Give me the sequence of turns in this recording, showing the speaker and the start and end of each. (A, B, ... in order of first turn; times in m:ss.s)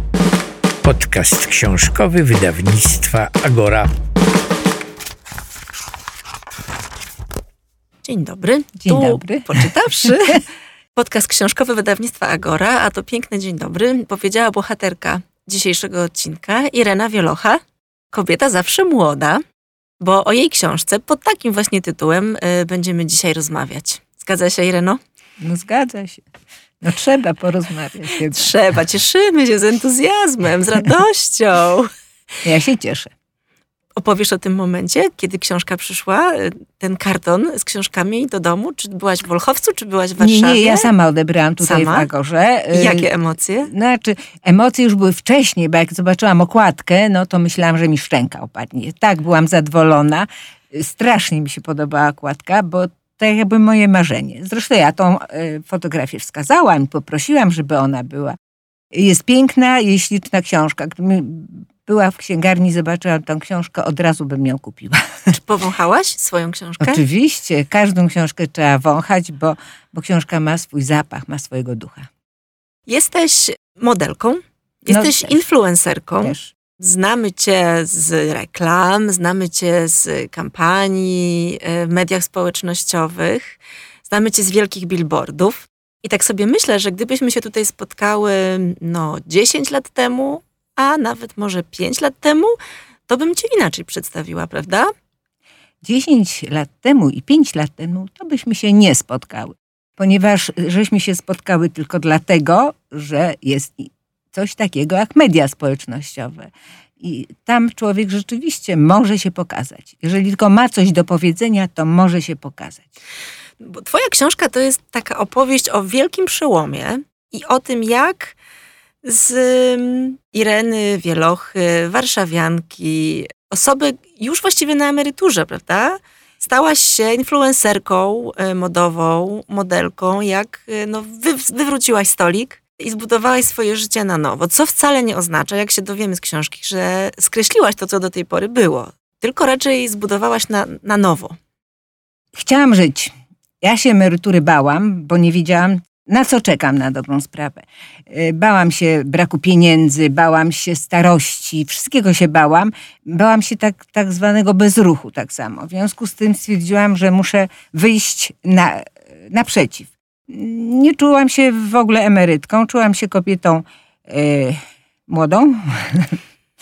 0:00.8-0:03.9 A
0:08.0-0:10.4 B
0:08.8-0:10.1 C
0:10.9-0:17.6 B
0:18.1-0:19.4 B
0:20.0-0:25.0 B
0:25.4-0:26.2 C
0:26.8-0:28.5 C
0:28.2-0:31.9 B
0:32.4-0:33.1 C
0:34.0-0:40.9 B
0:40.2-0:43.1 C
0:41.6-0:42.1 B
0:42.7-0:43.7 B
0:43.6-0:58.4 C
0:58.9-1:05.3 C
1:05.3-1:07.0 B
1:06.8-1:12.1 C
1:12.9-1:32.5 B
1:14.9-1:15.4 C
1:16.2-1:16.5 C
1:33.1-1:34.9 B
1:35.8-1:52.9 C
1:53.6-1:58.4 B
1:59.0-2:21.4 B
2:22.3-2:46.2 C